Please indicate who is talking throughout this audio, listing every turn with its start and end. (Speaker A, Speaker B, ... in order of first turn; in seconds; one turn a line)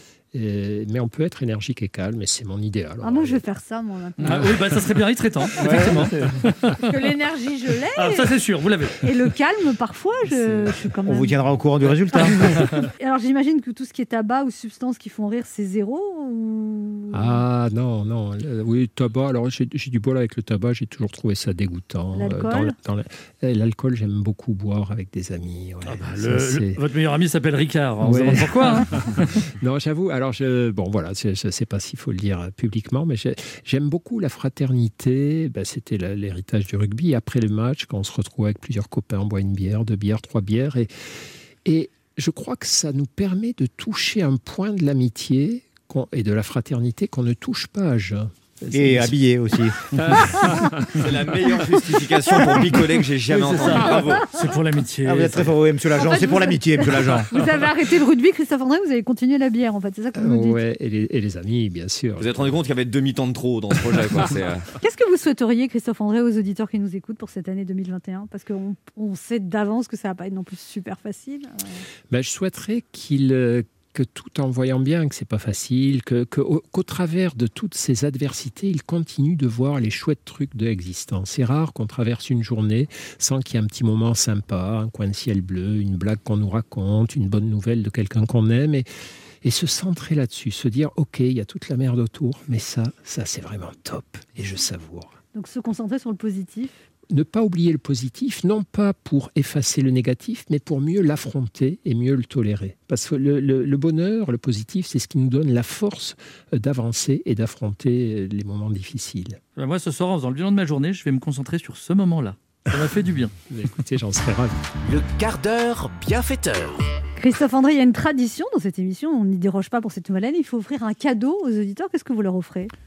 Speaker A: 0.3-3.4
Speaker B: 3.0-4.6
Speaker C: 4.2-6.9
Speaker A: 4.2-4.9
Speaker D: 5.6-6.3
Speaker B: 6.8-8.3
Speaker C: 7.9-9.1
Speaker B: 9.0-11.3
Speaker A: 10.4-10.7
Speaker D: 11.0-12.8
Speaker B: 13.0-17.4
Speaker A: 17.1-26.8
Speaker B: 22.1-22.7
Speaker C: 25.9-29.3
Speaker A: 28.0-49.1
Speaker D: 48.7-50.5
Speaker A: 49.9-51.1
Speaker E: 50.9-54.3
Speaker C: 53.3-55.5
Speaker D: 55.0-57.3
Speaker B: 56.0-60.6
Speaker A: 60.1-62.6
Speaker E: 62.2-64.7
Speaker A: 63.9-64.2
Speaker B: 64.8-71.8
Speaker A: 72.1-88.9
Speaker A: 89.4-95.2
Speaker B: 95.3-96.7
Speaker A: 97.1-109.4
Speaker C: 109.6-113.3
Speaker A: 113.5-114.5
Speaker F: 114.8-116.8
Speaker B: 117.2-122.7